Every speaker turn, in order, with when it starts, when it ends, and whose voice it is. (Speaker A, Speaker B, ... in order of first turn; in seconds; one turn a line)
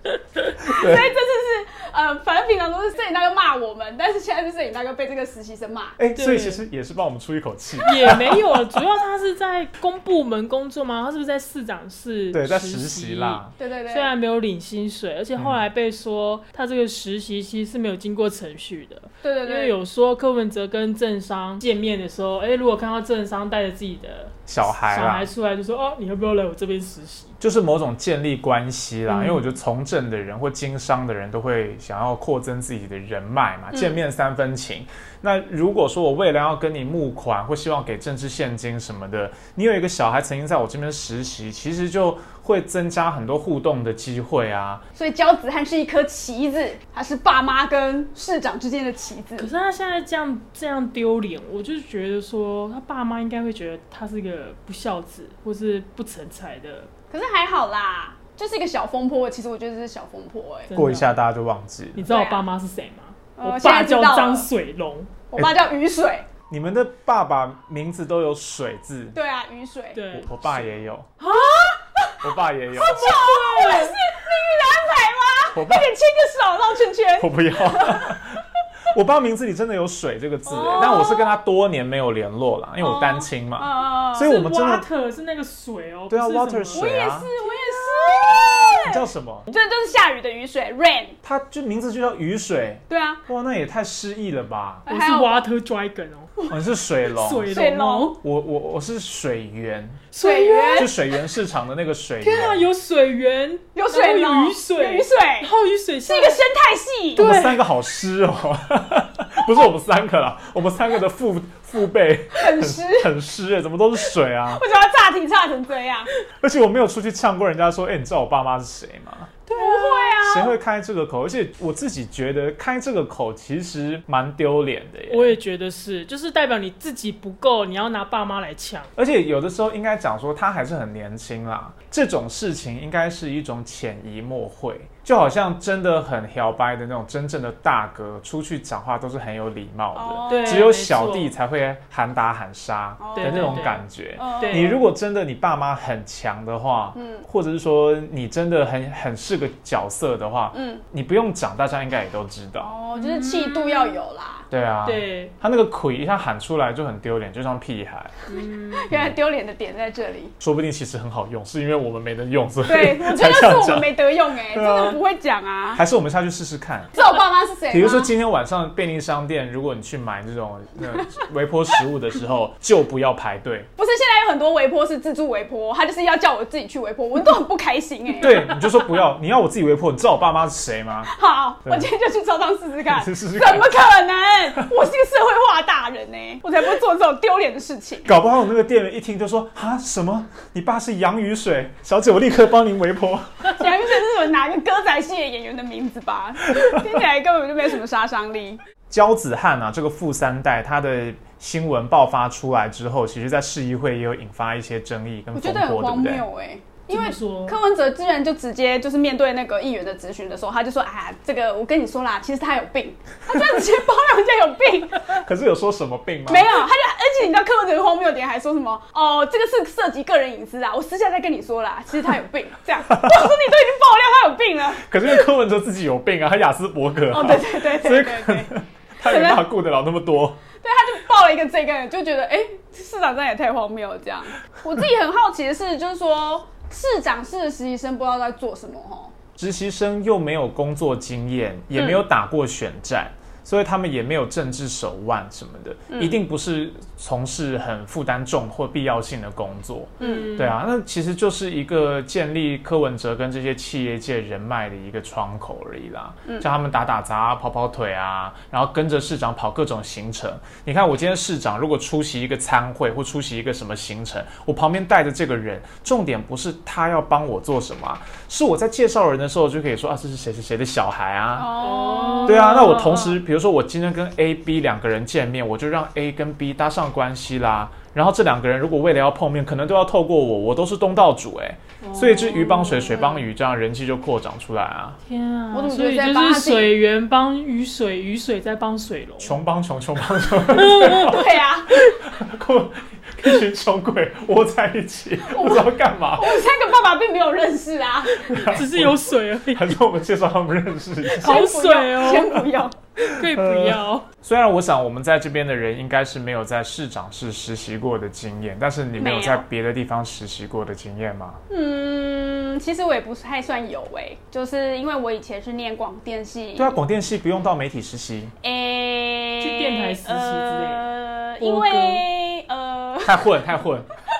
Speaker A: 0.6-1.1
Speaker B: 0.6-6.0
Speaker A: 6.0-8.8
Speaker C: 6.1-6.6
Speaker C: 7.8-27.3
Speaker A: 12.3-13.5
Speaker B: 13.6-14.1
Speaker B: 19.2-19.7
Speaker A: 24.5-25.3
Speaker A: 27.4-44.8
Speaker C: 29.1-29.4
Speaker B: 44.9-49.5
Speaker C: 49.4-56.9
Speaker B: 57.1-60.7
Speaker C: 60.7-61.1
Speaker A: 60.7-62.1
Speaker C: 62.0-65.1
Speaker B: 62.1-62.5
Speaker B: 63.4-64.5
Speaker B: 65.3-66.3
Speaker A: 66.5-69.2
Speaker B: 69.1-70.0
Speaker C: 69.9-71.7
Speaker A: 70.1-71.1
Speaker B: 71.2-78.2
Speaker A: 72.2-73.1
Speaker C: 72.8-74.0
Speaker A: 75.5-75.9
Speaker A: 77.2-84.8
Speaker B: 80.5-81.3
Speaker B: 82.8-84.3
Speaker C: 84.2-86.9
Speaker A: 86.1-87.3
Speaker B: 86.7-91.2
Speaker A: 88.8-89.5
Speaker A: 91.2-94.8
Speaker B: 92.9-93.2
Speaker B: 94.8-95.5
Speaker C: 94.9-96.3
Speaker A: 96.5-97.6
Speaker C: 97.1-98.2
Speaker B: 97.5-98.2
Speaker A: 98.2-100.0
Speaker C: 100.1-100.9
Speaker B: 100.2-100.9
Speaker A: 100.7-102.7
Speaker C: 102.2-106.4
Speaker B: 103.7-105.5
Speaker B: 106.1-107.3
Speaker C: 107.1-107.6
Speaker A: 107.2-114.6
Speaker B: 112.3-113.1
Speaker B: 114.5-116.1
Speaker A: 116.4-119.3
Speaker C: 119.5-120.1
Speaker B: 119.5-120.5
Speaker A: 120.2-125.4
Speaker C: 125.1-128.9
Speaker A: 128.9-152.7
Speaker B: 139.9-140.7
Speaker C: 140.3-141.3
Speaker B: 143.0-144.8
Speaker C: 143.2-143.8
Speaker C: 144.4-144.8
Speaker B: 146.9-147.2
Speaker B: 150.5-150.8
Speaker B: 152.6-154.5
Speaker C: 152.9-154.0
Speaker A: 154.5-158.2
Speaker C: 154.8-155.3
Speaker C: 158.3-158.8
Speaker B: 158.7-160.3
Speaker A: 158.9-159.2
Speaker A: 160.4-163.9
Speaker B: 162.7-165.8
Speaker A: 164.5-165.0
Speaker A: 165.7-167.0
Speaker B: 166.9-168.1
Speaker A: 167.7-173.7
Speaker B: 173.8-178.5
Speaker A: 178.2-181.1
Speaker B: 181.1-188.1
Speaker A: 182.9-183.7
Speaker A: 188.0-193.7
Speaker B: 193.5-198.6
Speaker A: 198.9-206.2
Speaker B: 205.3-215.2
Speaker C: 206.9-207.6
Speaker A: 215.1-216.6
Speaker B: 216.3-225.1
Speaker A: 222.9-223.3
Speaker A: 224.8-230.4
Speaker B: 227.1-229.4
Speaker B: 230.6-239.1
Speaker A: 239.4-271.5
Speaker B: 241.8-242.0
Speaker B: 245.9-246.2
Speaker B: 250.0-250.3
Speaker C: 250.0-250.6
Speaker B: 271.4-273.0
Speaker C: 271.6-273.1
Speaker A: 272.2-285.0
Speaker C: 281.8-283.1
Speaker C: 285.0-289.4
Speaker B: 285.5-286.7
Speaker A: 289.2-291.4
Speaker C: 290.5-292.0
Speaker B: 290.9-291.7
Speaker A: 292.0-296.4
Speaker B: 295.3-298.3
Speaker A: 298.2-301.5
Speaker C: 298.4-299.7
Speaker C: 301.1-302.4
Speaker B: 301.1-302.8
Speaker C: 303.0-304.1
Speaker A: 303.1-311.4
Speaker B: 309.0-309.4
Speaker B: 311.5-316.8
Speaker A: 316.6-318.3
Speaker B: 318.4-323.4
Speaker C: 319.4-320.8
Speaker C: 321.4-322.0
Speaker A: 323.0-323.9